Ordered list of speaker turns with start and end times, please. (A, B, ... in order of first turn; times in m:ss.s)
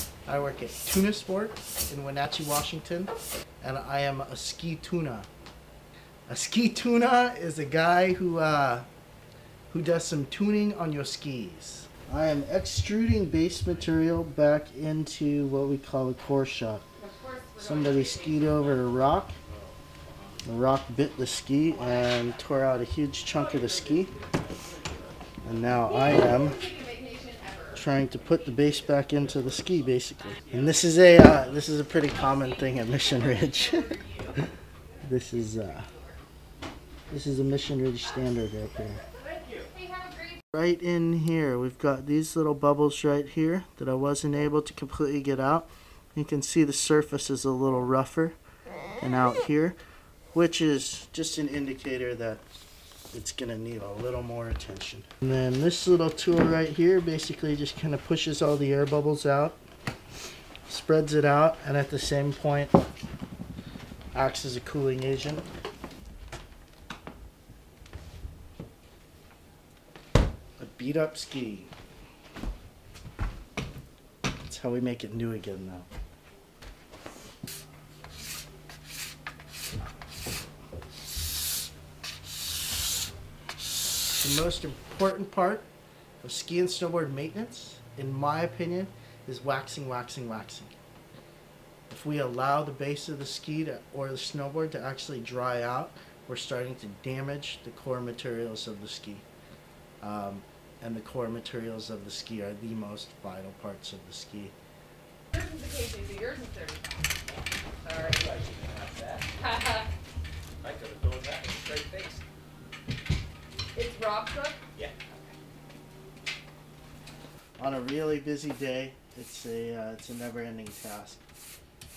0:00.2-0:05.3 A
0:06.3-0:08.8 A
0:09.7-0:16.9 A
0:16.9-0:18.9 B
0:17.6-0:19.4 A
0:19.4-0:20.4 C
0:20.4-0:24.1 A
0:21.7-0:22.2 B
0:23.3-0:25.8 C
0:25.4-0:26.7 A
0:25.8-0:27.8 B
0:27.7-0:34.5 A
0:29.1-0:32.0 C
0:31.9-0:36.2 B
0:35.0-0:35.9 A
0:37.1-0:39.0 A
0:39.2-0:40.4 B
0:40.5-0:48.4 A
0:49.0-0:49.8 A
0:50.3-0:52.4 A
0:53.1-0:59.6 A
1:00.7-1:02.8 A
1:04.1-1:05.4 A
1:10.6-1:11.7 A
1:14.4-1:15.9 A
1:24.2-1:25.7 A
1:26.2-1:30.7 A
1:31.9-1:39.2 A
1:40.0-1:44.5 A
1:45.3-1:48.3 B
1:48.0-1:49.4 C
1:49.3-1:49.9 B
1:50.6-1:52.2 C
1:53.7-1:54.6 B
1:54.7-1:55.2 C
1:57.6-2:01.2 A